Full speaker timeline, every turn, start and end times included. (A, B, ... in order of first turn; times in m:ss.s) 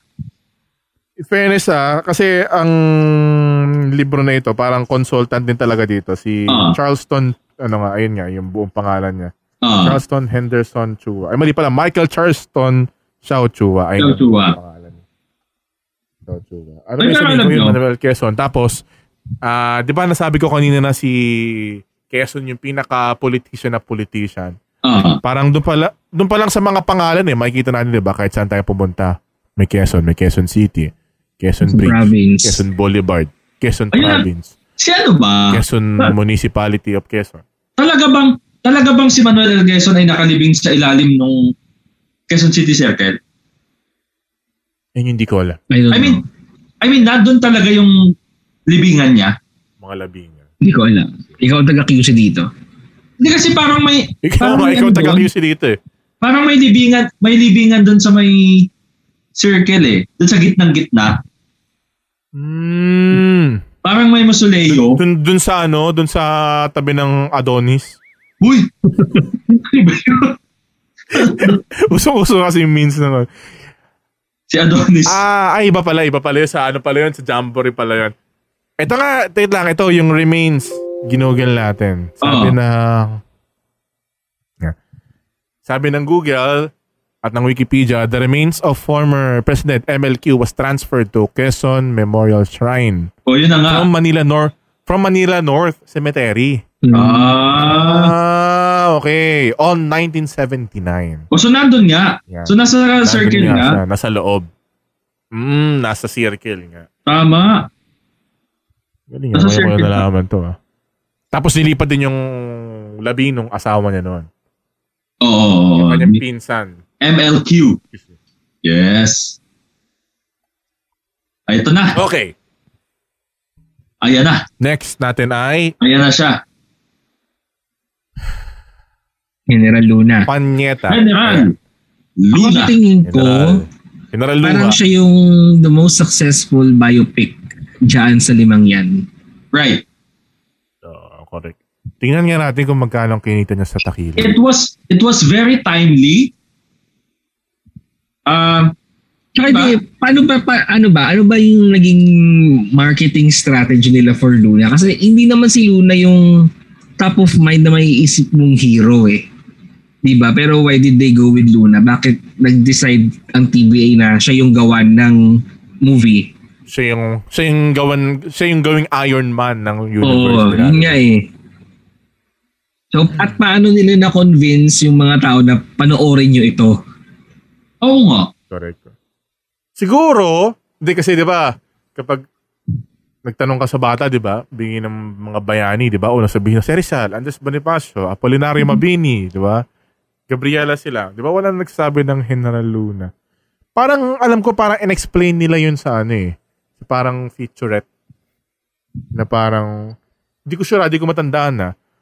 0:01.2-0:09.3 A
0:06.5-0:06.8 B
0:09.6-0:10.0 B
0:09.8-0:15.0 A
0:14.0-0:14.6 B
0:16.2-0:18.8 A
0:17.0-0:17.8 B
0:19.4-0:24.6 A
0:24.8-0:25.2 B
0:25.1-0:34.5 A
0:31.6-0:32.6 C
0:33.9-0:34.2 B
0:34.8-0:36.1 B
0:35.5-0:37.4 A
0:37.8-0:41.5 B
0:42.3-0:43.2 B
0:45.0-0:45.6 A
0:45.7-0:46.2 C
0:45.9-0:46.2 B
0:46.8-0:48.0 B
0:48.7-0:49.3 B
0:49.8-0:50.5 A
0:50.6-0:52.5 C
0:53.2-0:55.3 B
0:54.2-0:55.8 A
0:56.2-0:58.7 B
0:59.4-1:01.2 B
1:02.3-1:03.6 A
1:03.8-1:05.0 B
1:04.7-1:08.0 A
1:08.4-1:10.3 B
1:11.1-1:11.6 B
1:11.2-1:13.3 A
1:14.5-1:15.2 B
1:15.1-1:18.1 A
1:18.8-1:23.2 A
1:22.2-1:22.5 B
1:25.6-1:26.7 A
1:27.2-1:33.1 A
1:33.3-1:33.9 B
1:33.7-1:36.6 A
1:36.8-1:37.4 C
1:36.9-1:38.1 B
1:37.5-1:41.2 A
1:41.3-1:43.8 B
1:43.0-1:44.5 A
1:45.3-1:46.9 A
1:47.1-1:47.7 B
1:49.1-1:50.6 A
1:49.3-1:50.0 B
1:51.3-1:54.3 A
1:55.2-1:56.2 B
1:55.8-1:56.8 A
1:57.0-1:57.8 B
1:58.6-1:59.4 B
2:01.5-2:02.0 B
2:01.9-2:02.3 A
2:04.0-2:04.4 B
2:04.6-2:05.7 A
2:05.8-2:06.4 B
2:09.5-2:10.3 C
2:10.3-2:11.5 A
2:10.9-2:11.5 B
2:12.2-2:12.7 B
2:12.3-2:13.6 C
2:13.0-2:14.8 A
2:14.4-2:19.0 C
2:19.5-2:19.8 B
2:20.8-2:24.4 A
2:24.2-2:26.3 B
2:28.3-2:28.7 B
2:29.4-2:36.5 C
2:29.4-2:29.7 B
2:37.0-2:39.2 C
2:40.0-2:45.2 C
2:45.8-2:46.3 C
2:46.7-2:51.0 A
2:50.0-2:51.2 C
2:52.9-2:56.8 C
2:57.8-2:58.3 B
2:58.5-2:58.9 A
2:59.8-3:02.2 A
3:03.2-3:09.6 A
3:10.3-3:13.1 A
3:13.8-3:17.8 A
3:19.1-3:19.7 A
3:20.5-3:21.7 A